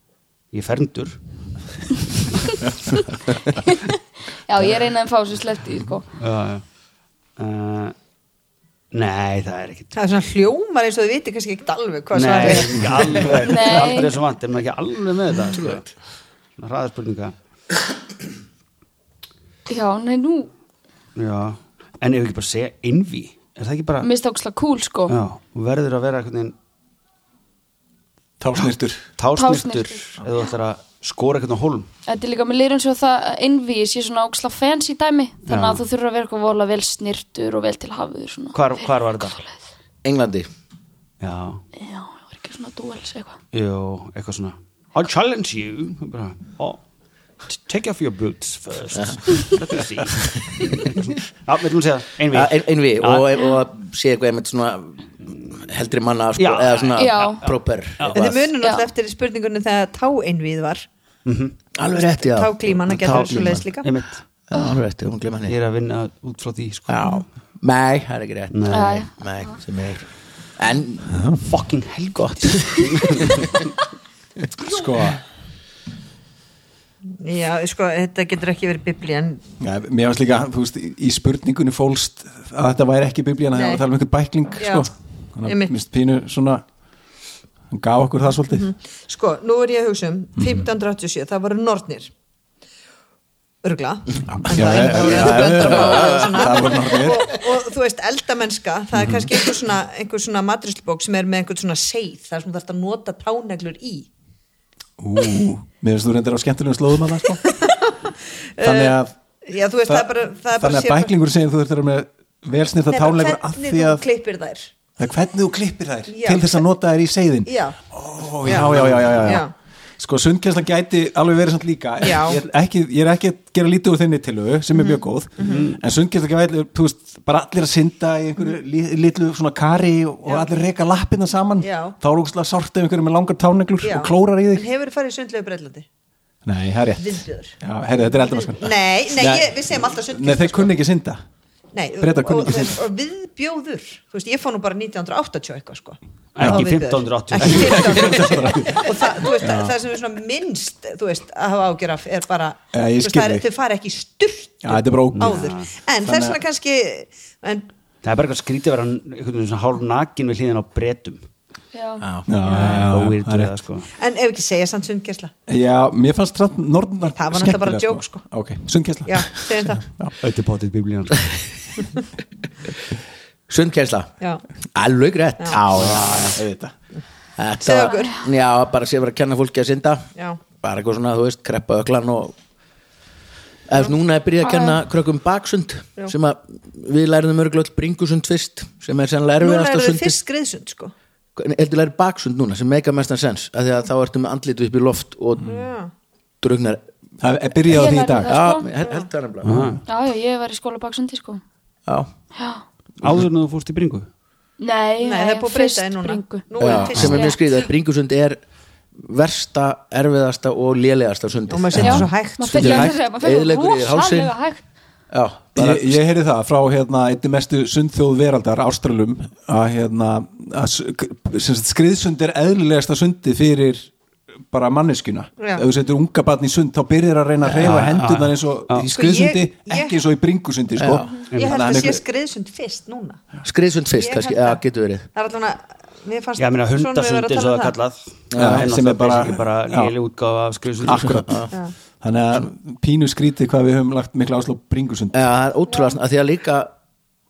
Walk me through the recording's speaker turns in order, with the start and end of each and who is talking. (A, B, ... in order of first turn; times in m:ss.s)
0:00.5-0:01.2 A
0:03.4-0:04.0 B
0:04.5-0:06.0 B
0:06.2-0:06.6 A
0:07.4-0:07.9 A
0:08.9-0:09.9 A
0:09.9-0:13.5 C
0:12.1-0:15.8 A
0:13.4-0:14.1 B
0:15.4-0:15.8 D
0:16.6-0:17.3 A
0:19.7-0:20.5 B
0:21.1-0:24.1 A
0:24.0-0:25.2 B
0:25.1-0:26.5 A
0:28.4-0:29.0 E
0:29.2-0:31.9 A
0:29.3-0:30.1 B
0:32.1-0:39.5 B
0:35.5-0:35.8 A
0:38.5-0:39.3 A
0:40.0-0:40.5 D
0:41.2-0:41.6 A
0:41.8-0:43.4 B
0:43.5-0:46.8 A
0:47.5-0:53.3 A
0:50.5-0:50.9 D
0:52.3-0:58.5 D
0:56.4-0:58.3 A
0:57.0-0:57.4 B
0:58.1-1:00.9 C
0:58.6-0:58.9 B
1:01.2-1:01.5 A
1:01.8-1:03.6 D
1:02.2-1:03.9 C
1:02.9-1:04.2 A
1:04.5-1:05.5 D
1:05.5-1:07.0 A
1:06.9-1:10.0 D
1:08.5-1:09.0 A
1:08.7-1:09.6 B
1:10.6-1:11.2 D
1:11.1-1:11.4 E
1:11.4-1:13.5 A
1:12.1-1:13.5 D
1:14.6-1:15.2 E
1:17.2-1:19.4 C
1:19.6-1:26.6 E
1:23.5-1:23.8 C
1:24.6-1:24.8 C
1:25.4-1:25.7 C
1:27.7-1:28.7 E
1:28.5-1:32.1 C
1:30.4-1:30.6 E
1:33.6-1:44.1 C
1:34.2-1:36.7 D
1:34.3-1:37.4 E
1:39.0-1:39.3 E
1:45.0-1:47.4 E
1:47.4-1:48.0 C
1:48.6-1:51.1 C
1:48.6-1:49.1 E
1:49.9-1:54.0 E
1:52.9-1:54.7 C
1:55.0-2:14.7 E
1:56.1-1:56.6 C
1:57.4-1:57.8 C
1:58.4-1:59.5 C
1:58.6-1:59.1 A
2:02.0-2:02.4 C
2:04.8-2:05.7 C
2:05.4-2:05.8 A
2:11.6-2:12.0 C
2:13.8-2:15.8 C
2:16.4-2:21.2 E
2:17.0-2:17.6 C
2:18.1-2:20.8 C
2:21.7-2:37.7 C
2:22.0-2:22.8 E
2:26.3-2:28.4 A
2:26.4-2:26.7 E
2:27.4-2:29.8 E
2:32.7-2:33.4 E
2:34.6-2:35.5 E
2:35.2-2:35.7 A
2:36.0-2:36.4 E
2:38.0-2:41.2 A
2:41.7-2:42.1 B
2:42.0-2:42.3 D
2:42.2-2:43.5 E
2:42.4-2:42.9 C
2:42.5-2:43.9 A
2:44.0-2:45.3 C
2:45.5-2:50.2 E
2:47.1-2:48.2 C
2:49.0-2:49.8 C
2:50.2-2:51.4 A
2:53.5-2:54.1 D
2:54.7-2:56.1 D
2:55.7-2:56.4 A
2:55.8-2:56.7 E
2:57.4-3:00.1 D
2:57.6-2:58.1 C
2:57.9-2:58.2 B
3:00.6-3:02.3 D
3:03.7-3:10.2 D
3:04.4-3:04.8 B
3:09.4-3:10.9 C
3:11.4-3:15.5 D
3:15.4-3:15.9 C
3:16.4-3:16.8 D
3:17.2-3:18.4 E
3:17.7-3:18.7 B
3:18.2-3:19.6 D
3:19.4-3:19.8 A
3:19.5-3:19.8 E
3:19.8-3:21.4 B
3:22.3-3:22.6 B
3:23.0-3:24.1 A
3:24.6-3:27.4 B
3:25.0-3:27.5 C
3:26.6-3:28.4 D
3:29.0-3:34.3 D
3:31.5-3:32.7 C
3:31.8-3:34.6 B
3:31.9-3:32.9 E
3:35.1-3:36.0 D
3:35.6-3:43.9 E
3:44.5-3:52.0 E
3:45.4-3:45.7 C
3:47.6-3:48.9 A
3:48.9-3:50.0 C
3:50.8-3:51.1 D
3:51.0-3:53.2 C
3:51.3-3:51.6 A
3:53.4-3:55.1 D
3:54.0-3:54.6 C
3:55.1-3:57.7 C
3:56.4-4:01.2 A
3:58.3-3:58.7 D
3:58.3-3:59.9 E
4:00.8-4:01.5 E
4:01.0-4:01.5 D
4:02.0-4:05.2 E
4:05.1-4:06.7 D